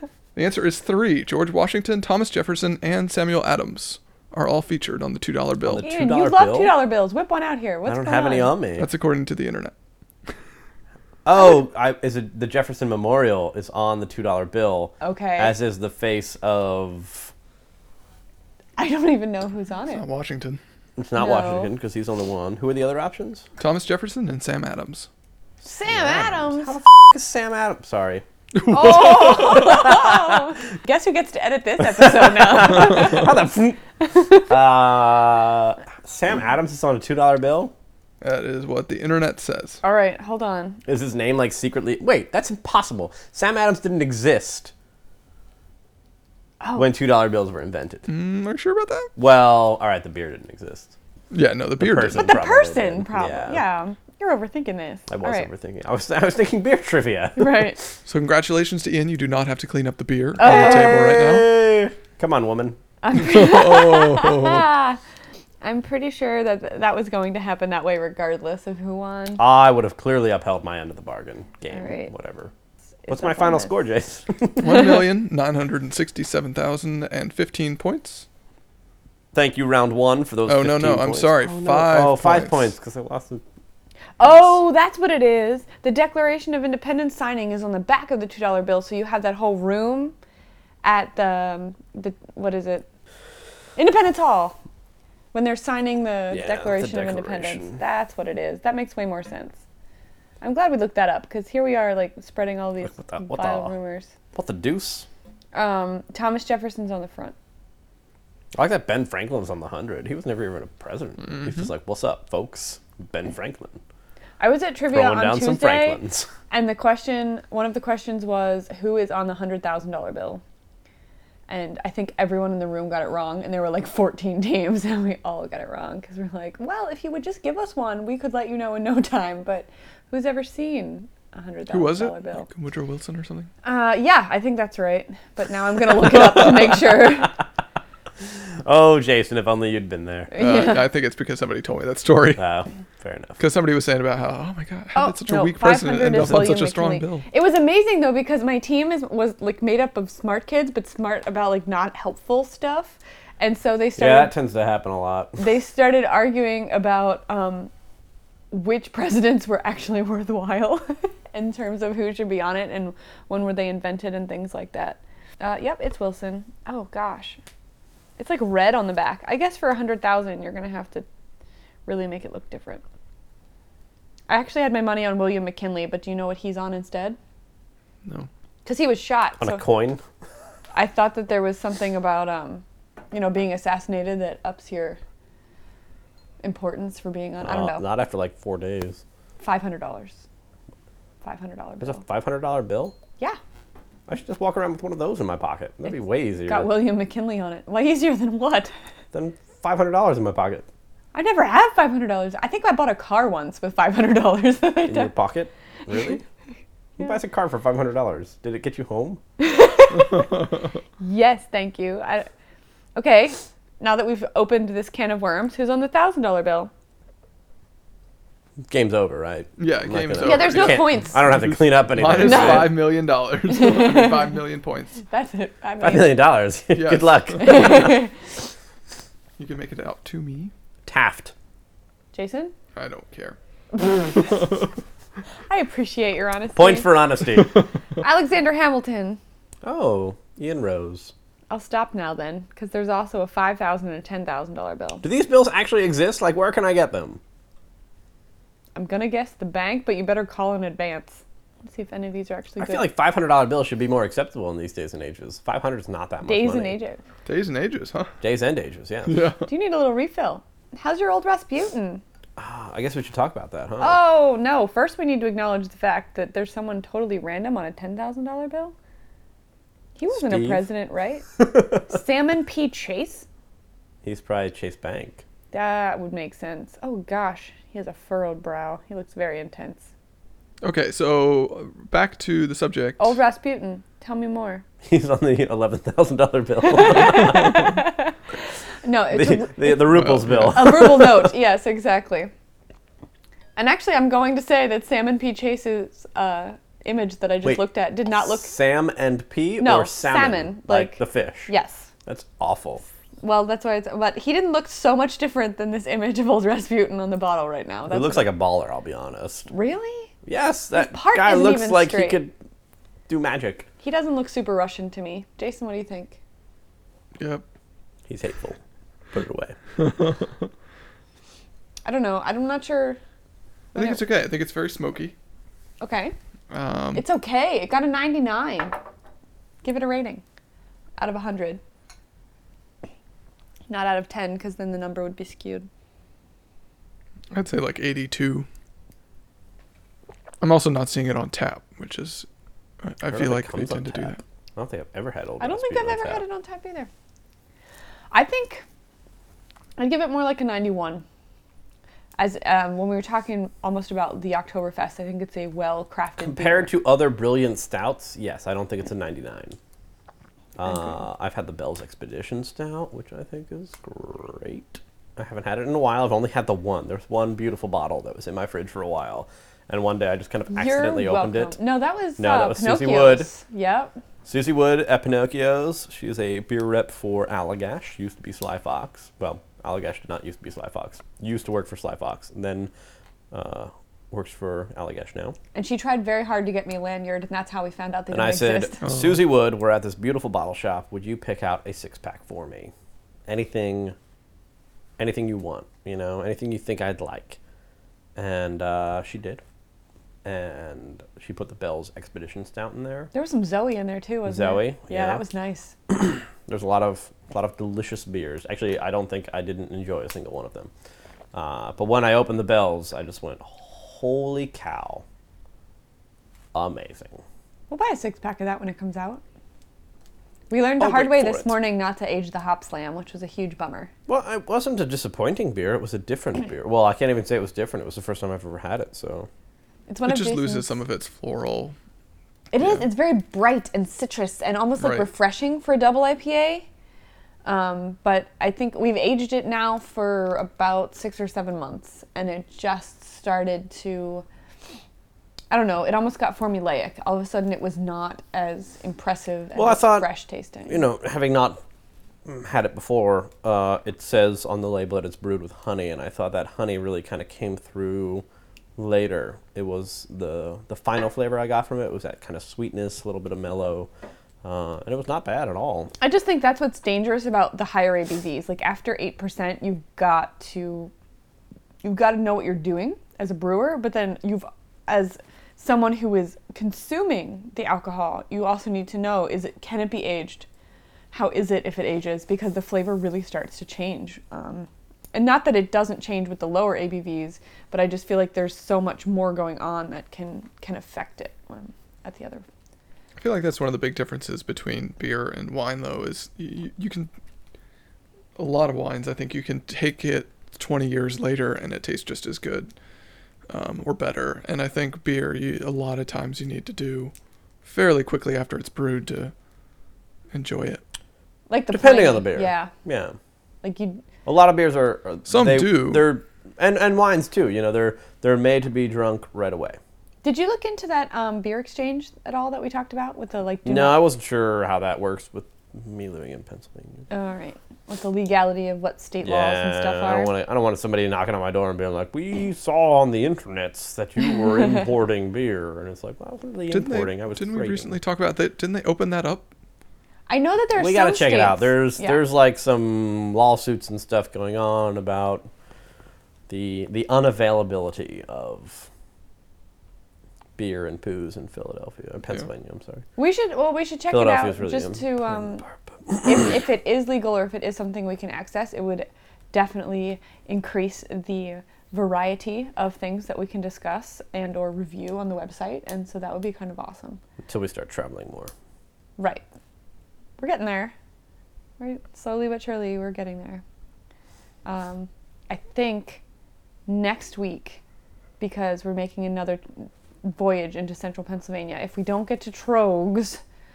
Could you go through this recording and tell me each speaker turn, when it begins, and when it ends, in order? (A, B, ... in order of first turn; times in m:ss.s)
0:00.4-0:05.9 A
0:05.6-0:06.8 B
0:05.8-0:08.6 C
0:07.8-0:08.9 B
0:08.8-0:09.7 A
0:11.2-0:17.3 B
0:15.0-0:15.6 C
0:18.8-0:20.0 C
0:19.9-0:20.6 A
0:21.0-0:23.4 B
0:21.2-0:21.7 C
0:23.6-0:25.1 A
0:25.6-0:26.8 C
0:25.9-0:28.2 B
0:28.6-0:29.8 A
0:28.7-0:33.3 C
0:29.9-0:30.2 B
0:31.9-0:33.8 B
0:34.1-0:34.5 C
0:34.4-0:37.7 B
0:38.2-0:39.8 A
0:39.8-0:40.8 C
0:40.9-0:44.7 B
0:46.6-0:46.9 C
0:46.8-0:48.1 B
0:48.1-0:49.1 A
0:49.2-0:50.9 B
0:51.3-0:52.3 A
0:51.8-0:53.6 B
0:52.2-0:55.5 C
0:55.1-0:57.8 B
0:57.4-0:57.8 C
0:58.1-1:01.5 A
1:00.4-1:01.0 C
1:00.4-1:02.8 B
1:03.0-1:05.0 C
1:03.2-1:04.7 A
1:05.6-1:09.4 C
1:09.4-1:12.5 B
1:11.7-1:12.1 C
1:13.0-1:13.8 C
1:13.1-1:14.9 B
1:14.6-1:18.3 A
1:19.3-1:23.4 B
1:20.5-1:22.7 A
1:24.2-1:30.2 C
1:30.8-1:32.9 C
1:33.8-1:34.6 C
1:35.3-1:39.6 C
1:36.3-1:37.8 B
1:40.4-1:44.1 C
1:42.8-1:43.7 B
1:44.3-1:45.1 B
1:45.5-1:47.4 C
1:48.6-1:53.8 B
1:54.4-2:00.4 C
1:54.9-1:56.3 B
2:01.5-2:12.5 C
2:11.7-2:13.5 A
2:13.6-2:17.4 C
2:18.3-2:20.3 B
2:20.3-2:20.9 C
2:20.4-2:22.4 A
2:22.4-2:23.4 B
2:23.4-2:27.2 A
2:25.0-2:34.3 C
2:26.1-2:26.5 B
2:34.0-2:35.4 B
2:35.4-2:37.7 C
2:38.5-2:47.4 C
2:48.2-2:51.1 C
2:51.9-2:52.8 C
2:54.3-2:57.2 C
2:58.6-2:59.6 C
2:59.4-3:00.0 B
3:00.8-3:05.0 C
3:06.4-3:07.8 C
3:07.4-3:09.0 B
3:09.4-3:10.2 C
3:11.2-3:12.0 C
3:11.8-3:13.0 B
3:14.1-3:16.8 B
3:16.5-3:18.7 C
3:19.1-3:20.7 B
3:21.1-3:25.1 C
3:24.8-3:26.2 B
3:27.0-3:29.2 B
3:29.4-3:30.3 C
3:31.0-3:32.3 C
3:33.0-3:36.7 C
3:38.7-3:42.8 B
3:39.6-3:45.0 A
3:40.2-3:41.3 C
3:42.1-3:42.9 C
3:43.5-3:44.4 C
3:45.0-3:46.2 C
3:45.8-3:48.0 B
3:46.7-3:47.9 A
3:47.4-3:48.1 C
3:49.4-3:50.5 A
3:50.9-3:51.3 B
3:52.1-3:52.5 C
3:52.8-3:53.4 A
3:54.2-3:54.5 A
3:55.5-3:56.9 C
3:56.6-3:57.6 B
3:58.0-3:59.2 C
3:59.6-4:01.1 B
4:01.5-4:05.0 C
4:05.0-4:07.2 B
4:08.8-4:12.9 C
4:12.6-4:16.8 B
4:16.2-4:17.0 C
4:17.3-4:18.1 A
4:18.2-4:19.2 B
4:19.1-4:19.4 A
4:19.5-4:22.0 C
4:22.4-4:24.0 B
4:23.8-4:28.7 C
4:30.0-4:33.3 C
4:30.1-4:30.7 B
4:34.0-4:35.2 B
4:35.5-4:39.9 C
4:40.6-4:43.2 A
4:43.0-4:44.6 C
4:44.8-4:47.8 B
4:46.6-4:48.2 C
4:48.8-4:52.3 C
4:49.1-4:51.3 B
4:49.9-4:50.6 A
4:53.6-4:58.5 C
4:58.4-5:01.5 B
4:59.6-5:01.9 C
5:02.0-5:02.8 B
5:03.2-5:08.3 C
5:07.9-5:09.5 B
5:09.5-5:10.1 C
5:10.2-5:12.3 B
5:10.7-5:12.2 C
5:13.1-5:13.7 B
5:13.8-5:16.2 C
5:17.2-5:17.4 A
5:18.1-5:18.6 B
5:19.1-5:19.6 B
5:21.8-5:23.0 C
5:23.8-5:24.0 C
5:23.8-5:25.1 A
5:25.8-5:26.2 C
5:26.5-5:27.0 A
5:27.0-5:28.8 C
5:29.6-5:30.2 C
5:31.0-5:31.6 C
5:33.7-5:35.7 C
5:37.3-5:38.5 A
5:40.4-5:42.3 A
5:42.8-5:44.2 A
5:43.1-5:46.2 B
5:45.4-5:46.9 C
5:48.1-5:48.6 C
5:49.8-5:51.0 C
5:52.2-5:56.7 C
5:56.2-5:59.6 B
6:00.6-6:11.6 B
6:10.5-6:13.9 C
6:12.2-6:13.3 B
6:14.2-6:22.7 B
6:23.3-6:25.4 B
6:25.6-6:28.8 C
6:28.1-6:32.7 B
6:28.8-6:29.2 A
6:33.3-6:34.0 B
6:35.0-6:37.4 B
6:38.2-6:39.4 B
6:40.2-6:43.1 B
6:43.1-6:45.8 C
6:44.3-6:45.2 B
6:45.9-6:50.7 B
6:51.3-6:55.0 B
6:56.5-6:57.2 B
6:57.7-6:59.2 C
7:00.5-7:03.9 C
7:00.8-7:01.6 B
7:04.1-7:09.3 B
7:09.9-7:10.7 C
7:10.1-7:11.8 A
7:12.5-7:16.7 C
7:14.8-7:15.1 A
7:17.4-7:24.2 C
7:25.5-7:30.8 C
7:29.6-7:30.1 B
7:30.7-7:31.6 B
7:32.2-7:38.2 B
7:38.8-7:43.9 B
7:44.4-7:45.9 B
7:46.0-7:50.9 C
7:51.8-8:00.5 C
8:01.1-8:12.5 C
8:13.2-8:17.1 A
8:18.4-8:22.7 A
8:23.5-8:27.1 A
8:27.6-8:29.3 A
8:30.3-8:30.8 A
8:31.5-8:32.7 C
8:31.7-8:33.2 B
8:33.6-8:34.0 C
8:34.2-8:39.8 B
8:35.3-8:36.1 A
8:40.2-8:44.0 C
8:43.6-8:47.1 B
8:47.1-8:50.3 C
8:49.2-8:58.0 B
8:56.7-8:59.5 A
9:00.3-9:02.2 C
9:00.8-9:05.5 B
9:06.5-9:08.9 B
9:10.6-9:13.0 B
9:13.2-9:15.6 C
9:14.1-9:16.5 B
9:16.2-9:27.2 C
9:27.5-9:28.5 B
9:29.2-9:29.4 C
9:30.4-9:31.0 C
9:31.8-9:33.6 C
9:34.6-9:36.2 C
9:36.9-9:37.8 C
9:38.4-9:43.4 C